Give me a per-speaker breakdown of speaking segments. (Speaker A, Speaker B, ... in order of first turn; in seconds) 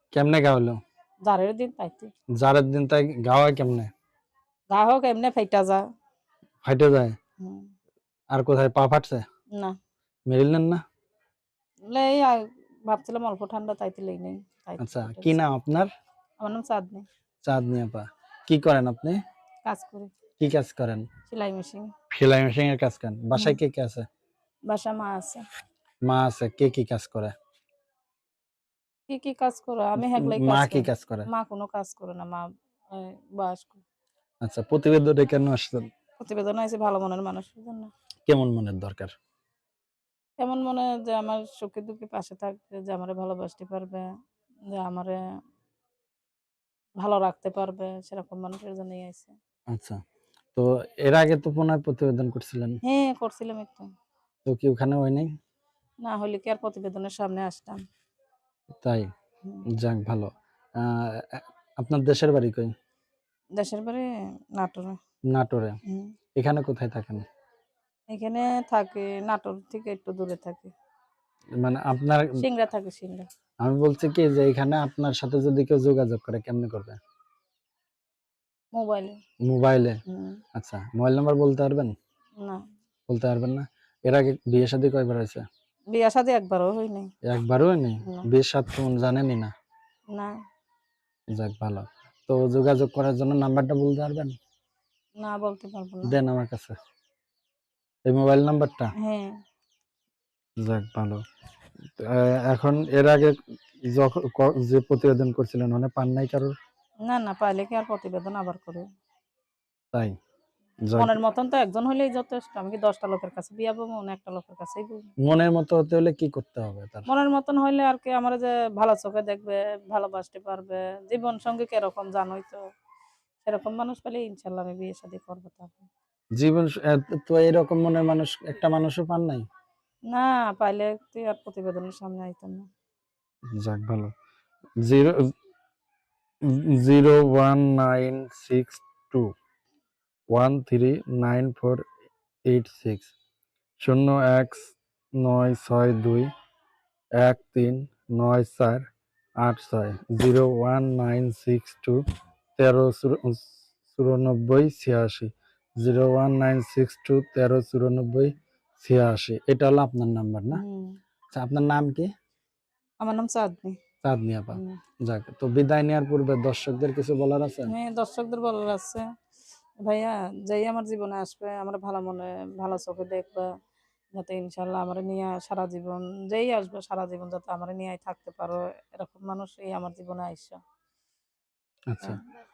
Speaker A: 0.1-0.8, 2.4-3.9, 6.6-7.2, 8.3-9.2, 10.3-10.8, 14.8-15.9, 17.4-19.2, 20.4-21.1, 22.1-24.1, 26.1-27.3, 30.0-31.3, 34.4-35.9, 38.3-39.1, 49.7-50.0, 50.5-52.8, 54.5-55.3, 58.8-59.1, 59.7-62.7, 65.3-65.8, 66.4-67.2, 71.6-72.4, 73.6-77.0, 79.5-80.0, 80.5-81.9, 83.1-85.4, 87.2-89.5, 91.3-94.4, 96.0-96.7, 98.1-98.9, 100.6-101.2, 102.0-106.5, 110.9-111.2, 115.2-117.1, 126.4-129.4, 133.6-134.1, 134.8-135.3, 136.4-139.3, 140.3-141.8, 142.5-143.1, 143.8-146.3, 147.2-148.8, 149.4-152.0, 152.6-160.6, 161.3-162.1, 164.0-167.7, 181.9-182.2
Speaker B: 1.2-2.1, 4.7-5.8, 7.4-7.7, 11.9-15.4, 16.4-17.1, 19.7-20.1, 21.3-21.9, 24.7-25.4, 29.1-33.8, 36.2-37.9, 40.4-44.1, 44.7-45.2, 47.0-49.4, 52.8-53.9, 56.0-57.8, 63.6-65.0, 65.8-66.1, 68.1-70.7, 72.4-73.3, 78.7-79.2, 80.1-80.4, 85.9-87.1, 95.2-96.2, 99.0-99.3, 107.1-108.8, 111.0-115.0, 117.1-122.6, 123.5-125.9, 130.1-132.7, 160.5-161.0, 163.0-163.8, 164.5-164.8, 167.7-169.0, 169.8-173.5, 174.1-180.6